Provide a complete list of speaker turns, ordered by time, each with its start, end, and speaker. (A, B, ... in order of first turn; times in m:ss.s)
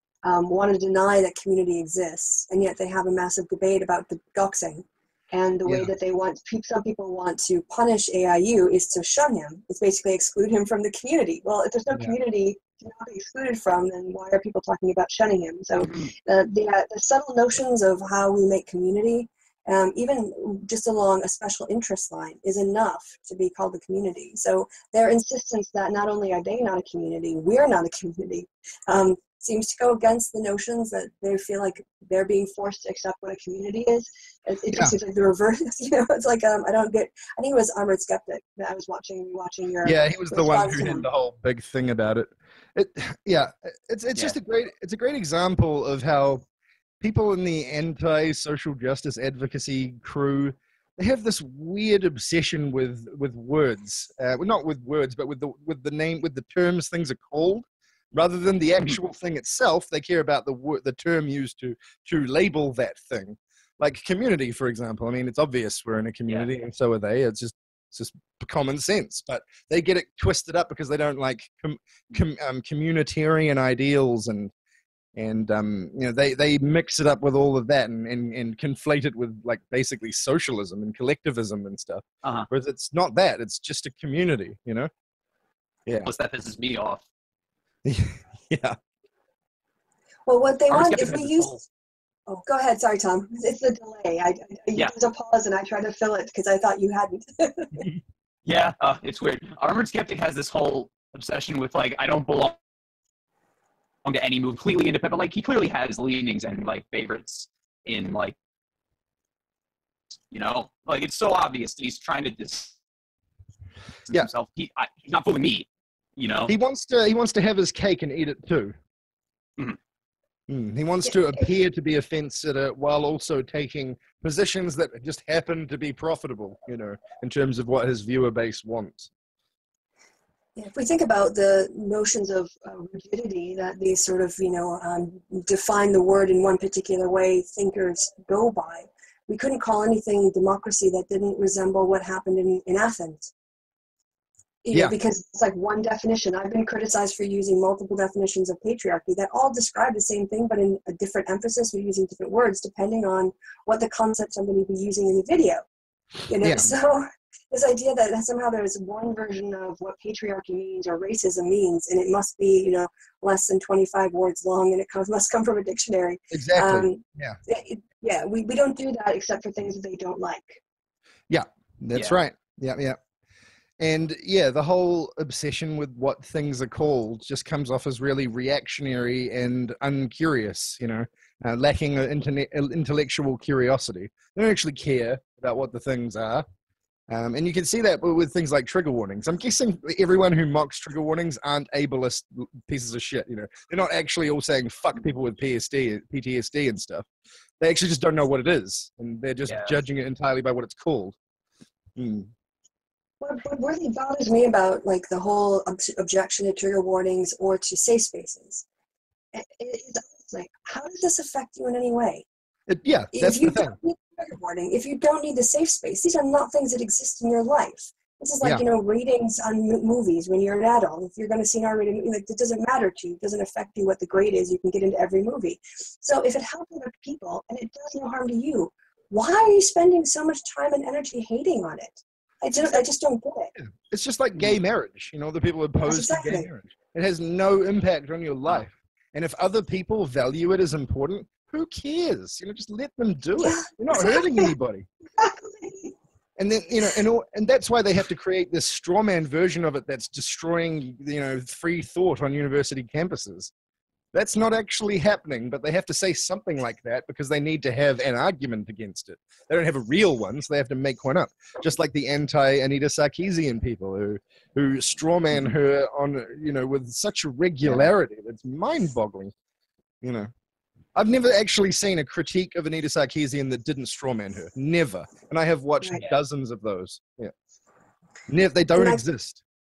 0:00.2-0:41.1 A
0:05.6-0:05.9 B
0:39.8-0:46.4 B
0:47.0-1:14.5 B
1:15.2-1:24.9 B
1:22.2-1:22.5 C
1:26.1-1:27.0 C
1:27.8-1:28.8 B
1:30.3-1:31.6 A
1:30.7-1:31.6 C
1:32.3-1:37.9 A
1:38.5-1:42.6 C
1:44.0-1:48.4 C
1:50.3-1:52.8 C
1:54.1-1:56.5 C
1:56.5-1:58.7 B
2:00.5-2:09.1 B
2:10.6-2:23.3 A
2:24.6-2:35.6 A
2:36.3-2:50.6 A
2:36.4-2:36.7 B
2:46.3-2:47.4 B
2:51.3-2:53.0 B
2:51.9-2:52.2 C
2:53.8-3:06.4 B
3:07.1-3:17.1 B
3:17.6-3:21.2 B
3:19.5-3:19.8 C
3:22.0-3:22.3 B
3:23.2-3:28.7 A
3:29.3-3:32.3 A
3:32.7-3:33.8 B
3:33.1-3:53.5 A
3:53.6-4:04.9 B
3:55.8-3:56.5 A
4:03.4-4:04.5 A
4:05.2-4:05.9 A
4:06.4-4:13.5 B
4:14.1-4:29.3 B
4:30.0-4:30.3 B
4:31.0-4:37.3 B
4:38.3-4:39.4 B
4:38.8-4:39.0 A